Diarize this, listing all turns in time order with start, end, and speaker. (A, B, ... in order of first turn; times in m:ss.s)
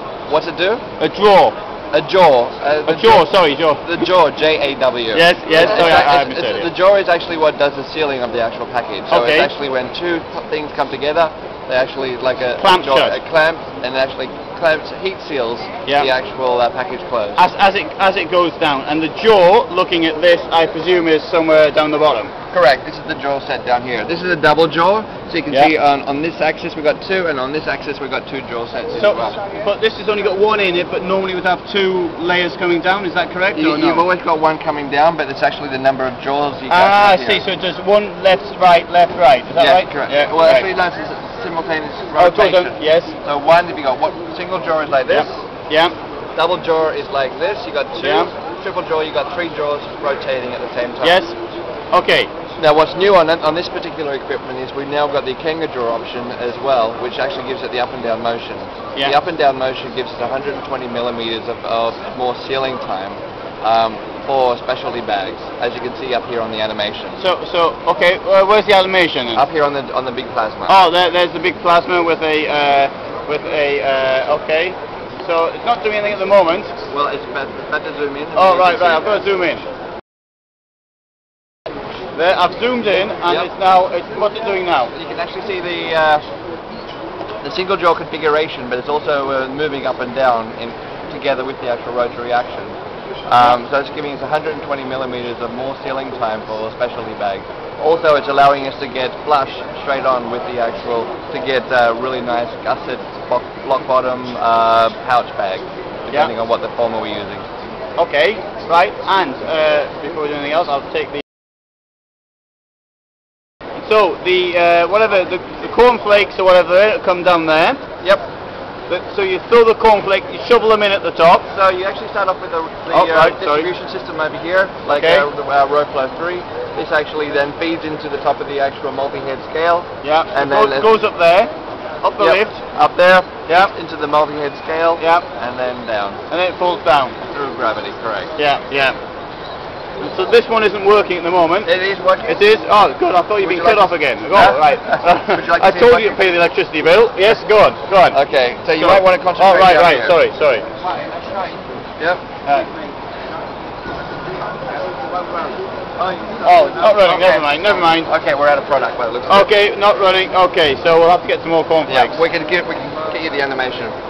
0:00.3-0:00.8 A
0:01.0-0:01.6 B
0:01.9-0:03.3 A
0:02.9-0:04.1 B
0:03.8-0:17.4 A
0:05.1-0:06.7 B
0:09.1-0:09.5 B
0:12.6-0:13.2 B
0:15.9-0:16.1 B
0:17.4-0:22.3 B
0:22.5-0:29.4 A
0:29.0-0:34.0 B
0:33.6-0:37.4 A
0:36.7-0:40.7 B
0:39.6-0:45.5 A
0:42.2-0:43.1 B
0:45.1-0:45.9 B
0:46.4-0:51.2 A
0:48.0-0:48.3 B
0:51.0-0:51.4 B
0:51.9-0:52.3 B
0:52.6-1:07.2 A
1:07.2-1:09.4 B
1:09.3-1:10.8 A
1:10.7-1:16.7 B
1:16.9-1:19.3 A
1:18.4-1:19.7 B
1:22.2-1:24.9 B
1:24.9-1:26.3 A
1:27.4-1:47.5 A
1:48.0-1:51.2 B
1:53.8-1:57.8 B
1:58.9-2:01.5 B
2:01.5-2:10.9 A
2:02.9-2:03.7 B
2:05.0-2:05.3 B
2:10.0-2:12.6 B
2:12.2-2:16.2 A
2:13.5-2:13.7 B
2:15.0-2:15.3 B
2:16.3-2:17.2 B
2:17.2-2:18.3 A
2:18.4-2:19.0 B
2:20.0-2:21.7 B
2:21.6-2:22.4 A
2:22.3-2:28.2 B
2:23.4-2:26.2 A
2:28.1-2:30.2 A
2:28.8-2:30.6 B
2:36.2-2:39.5 A
2:36.4-2:38.1 B
2:39.3-2:42.2 B
2:41.9-2:44.0 A